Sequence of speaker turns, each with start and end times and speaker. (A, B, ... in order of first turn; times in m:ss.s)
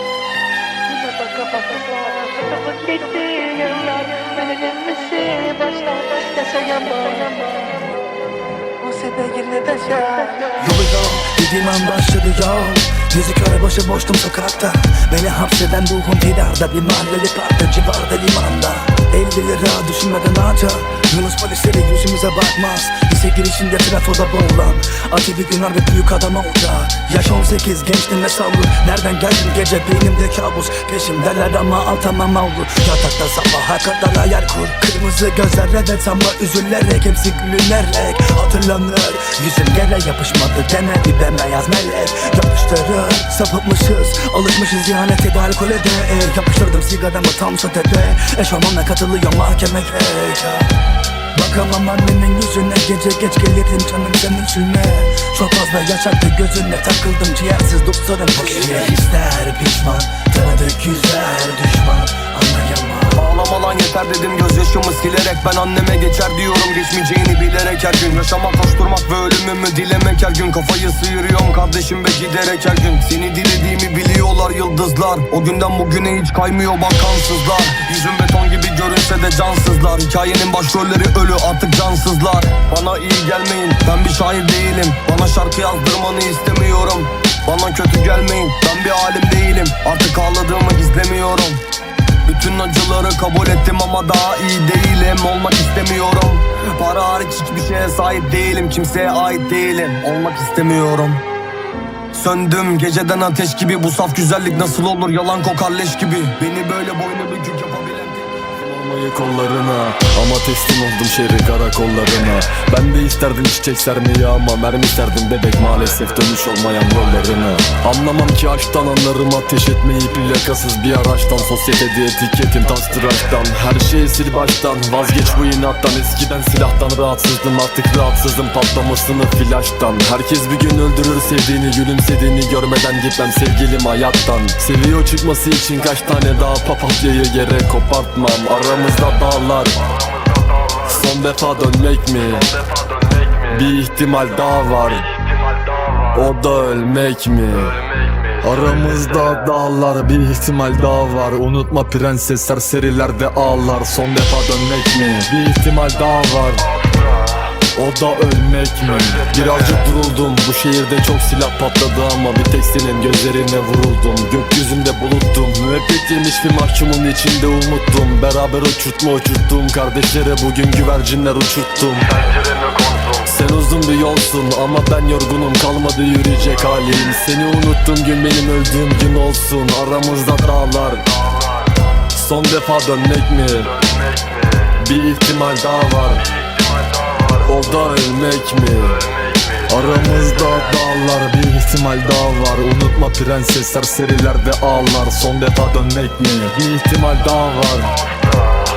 0:00.9-0:07.5 A
0:08.8-0:10.5 A
0:10.6-0:50.7 B
0:51.3-1:03.3 B
0:58.5-0:58.9 C
1:03.2-1:31.6 C
1:32.2-1:41.2 C
1:42.1-1:48.4 C
1:48.5-2:19.8 D
2:20.0-2:20.4 A
2:20.8-2:22.5 D
2:22.6-2:23.3 A
2:23.5-2:25.1 D
2:25.1-2:25.9 A
2:26.1-2:27.7 D
2:27.8-2:28.2 A
2:28.4-2:36.7 D
2:37.7-2:52.1 D
2:52.2-2:53.0 A
2:53.1-3:01.1 D
3:02.1-3:03.7 D
3:04.7-3:06.3 D
3:07.4-3:09.0 D
3:09.7-3:17.9 D